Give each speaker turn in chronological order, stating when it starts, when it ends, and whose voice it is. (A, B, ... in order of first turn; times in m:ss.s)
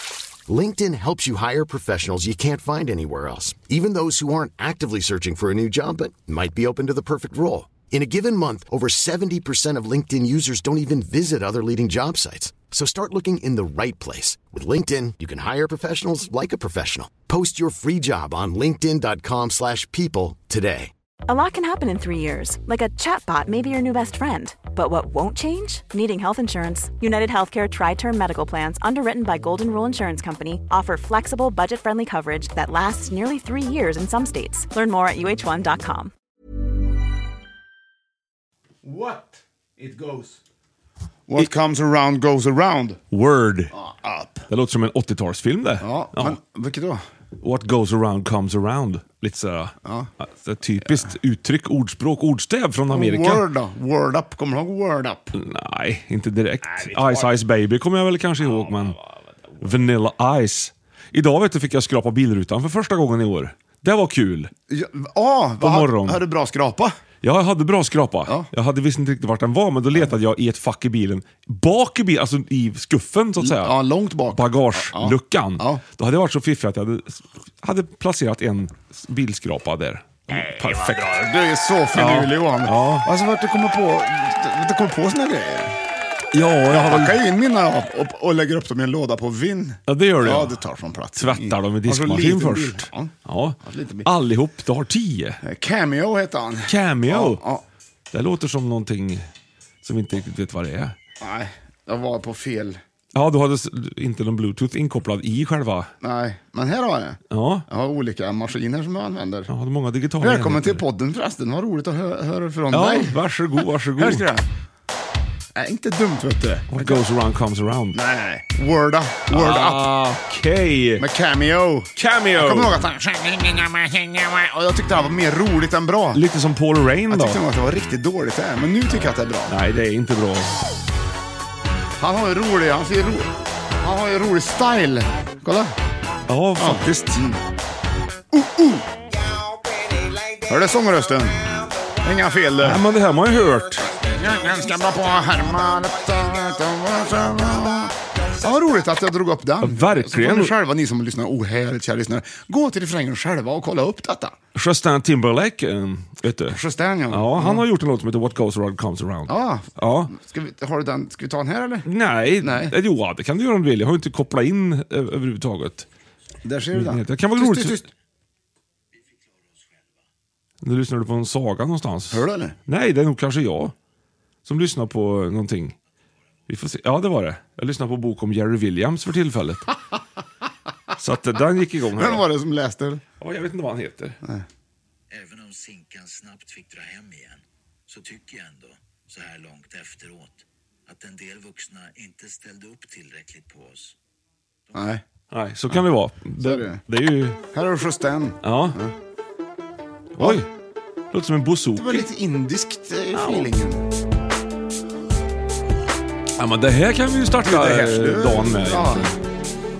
0:00.5-0:20.9 A
0:21.3-0:36.1 B
0:38.8-0:40.4 C
0:41.3-0:43.0 C
0:43.1-0:43.7 D
0:43.7-0:44.5 C
0:44.5-0:46.4 D
0:45.8-0:47.0 C
0:47.4-0:53.4 D
0:49.8-0:50.1 C
0:52.9-0:55.4 C
0:55.4-0:59.0 D
0:56.7-0:57.3 C
0:58.6-0:59.0 C
0:59.6-1:04.5 D
1:04.7-1:07.0 C
1:05.6-1:06.2 D
1:07.2-1:13.8 D
1:13.4-1:15.8 C
1:14.3-1:21.2 D
1:20.3-1:25.8 C
1:21.9-1:23.1 D
1:26.3-1:27.2 D
1:26.7-1:34.1 C
1:29.9-1:30.6 D
1:31.2-1:35.4 D
1:35.4-1:37.6 C
1:36.7-1:37.4 D
1:38.1-1:39.2 D
1:39.8-1:40.9 D
1:41.2-1:42.8 C
1:43.1-1:45.9 D
1:46.0-1:49.5 C
1:47.3-1:47.7 D
1:49.5-1:50.8 D
1:50.2-1:53.2 C
1:52.7-1:54.2 D
1:54.0-1:54.5 C
1:55.5-1:57.0 C
1:56.7-1:58.0 D
1:57.9-1:59.9 C
1:59.3-2:01.0 D
2:01.0-2:06.2 C
2:02.0-2:02.8 D
2:06.1-2:07.4 D
2:07.1-2:09.5 C
2:09.5-2:10.6 D
2:12.0-2:15.7 C
2:16.3-2:17.2 D
2:16.6-2:17.4 C
2:18.3-2:18.9 C
2:20.5-2:22.8 C
2:22.6-2:23.9 D
2:24.0-2:34.4 C
2:29.6-2:30.5 D
2:34.5-2:36.6 D
2:36.5-2:37.7 C
2:37.1-2:40.1 D
2:39.3-2:41.8 C
2:41.8-2:45.9 D
2:42.4-2:42.7 C
2:46.4-2:47.8 C
2:46.7-2:47.8 D
2:49.0-2:50.0 E
2:50.6-2:53.7 D
2:52.1-2:52.5 C
2:54.4-2:55.8 D
2:56.5-2:59.7 D
3:01.0-3:02.2 D
3:01.9-3:03.0 C
3:03.2-3:04.2 D
3:05.1-3:14.0 E
3:14.7-3:15.0 C
3:15.3-3:17.4 D
3:16.4-3:16.8 C
3:17.5-3:18.9 C
3:18.4-3:18.8 D
3:20.2-3:20.5 D
3:20.2-3:20.4 C
3:21.1-3:22.1 D
3:21.8-3:23.8 C
3:23.1-3:23.4 D
3:26.4-3:29.1 D
3:27.4-3:29.2 C